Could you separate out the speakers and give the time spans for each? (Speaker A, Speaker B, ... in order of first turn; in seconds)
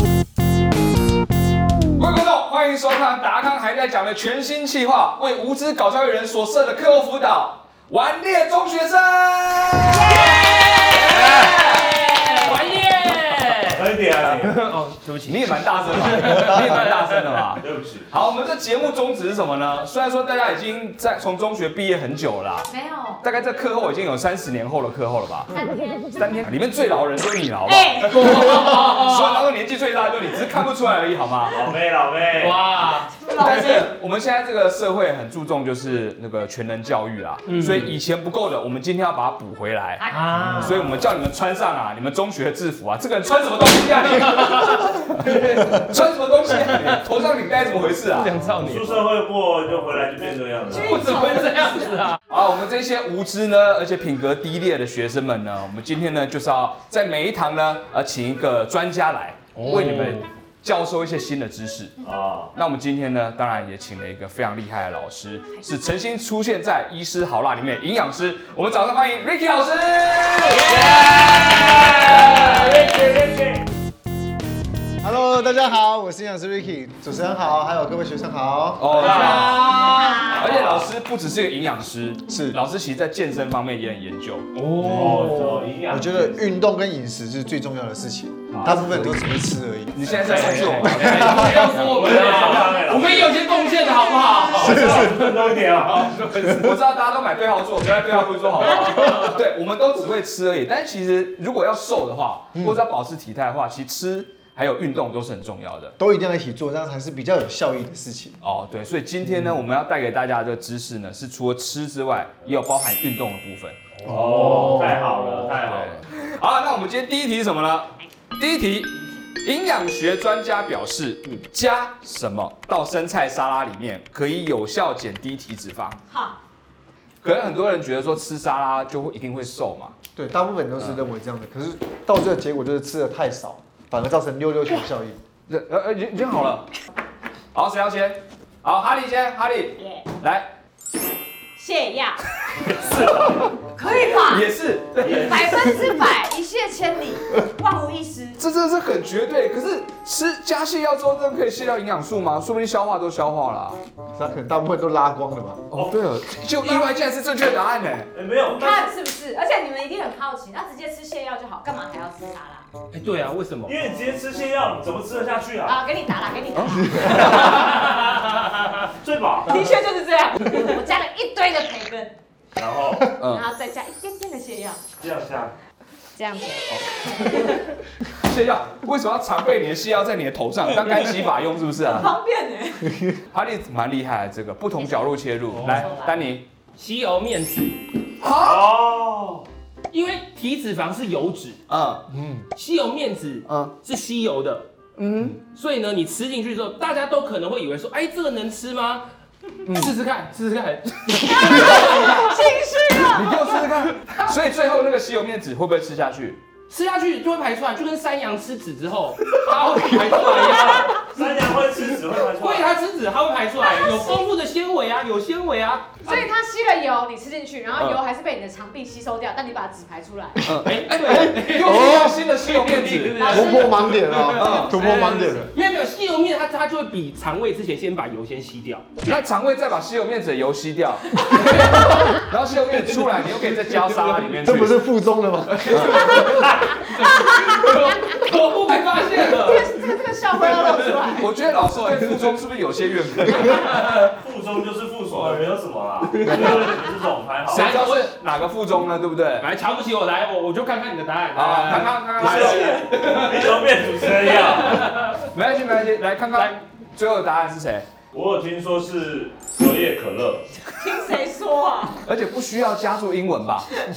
Speaker A: 2.0-12.3, 15.2-22.7, 23.2-25.5, 26.1-31.6, 33.4-48.3, 52.3-62.0, 62.5-73.0, 78.8-84.5, 88.5-89.3, 89.9-92.0, 96.4-106.0, 108.4-113.8, 115.6-126.0, 127.2-129.9, 135.5-136.7, 137.5-140.5, 142.8-145.9, 148.4-153.8, 155.7-158.1, 166.5-167.8, 173.2-173.5, 178.1-182.1, 183.3-186.4, 188.2-188.7, 191.7-192.0, 194.9-195.4, 199.7-199.9, 201.7-202.0, 203.1-206.4, 217.7-218.0, 220.4-223.4, 224.3-225.2, 229.0-234.8, 235.5-236.4, 241.1-243.7, 247.5-249.5, 251.3-253.6, 255.3-257.9, 262.0-263.7
Speaker B: 9.9-17.4, 28.1-29.5, 32.4-33.2, 37.5-37.9, 40.1-40.9, 44.2-45.8, 48.1-49.0, 50.8-52.2, 59.5-60.3, 70.6-73.1, 79.0-80.4, 84.5-85.7, 90.1-96.8, 98.6-99.4, 114.0-115.5, 156.6-157.0, 162.9-163.8, 167.7-168.7, 185.5-186.1, 186.7-187.8, 189.9-191.6, 192.5-194.6, 195.4-199.0, 199.7-202.4, 204.0-204.3, 206.7-211.1, 212.3-216.3, 220.6-228.9, 231.3-232.0, 235.8-239.8, 243.5-244.1, 245.1-245.5, 246.1-246.8, 247.5-248.1, 249.4-253.3, 254.6-255.3, 256.3-256.6
Speaker C: 13.7-14.6, 17.6-18.1, 31.5-32.7, 40.6-40.9, 48.6-51.2, 62.0-62.5, 70.6-73.6, 79.0-79.6, 84.8-86.5, 91.8-93.4, 94.5-96.2, 114.0-116.0, 142.9-143.4, 145.0-145.4, 158.1-158.9, 163.7-165.8, 169.0-169.6, 172.6-173.1, 175.0-175.5, 188.4-189.5, 211.0-212.7, 244.0-247.8, 252.2-254.8, 258.1-260.5
Speaker D: 22.7-23.2, 25.5-26.0, 27.6-28.3, 33.2-33.9, 40.0-40.3, 50.7-52.1, 79.8-80.5, 126.1-126.4, 139.8-140.0, 141.6-142.2, 143.7-144.5, 145.0-148.4, 158.5-162.7, 165.7-167.8, 169.5-172.1, 173.2-174.8, 176.1-177.5, 181.8-183.0, 185.6-186.2, 201.2-203.5, 213.6-214.3, 216.0-220.5, 223.2-223.9, 239.3-241.3, 260.8-262.0
Speaker E: 75.0-79.1, 82.3-82.6, 85.9-91.7, 94.6-95.1, 106.0-108.4, 130.2-135.2, 154.1-155.7, 192.2-192.4, 220.4-222.3, 223.2-225.5, 234.3-236.3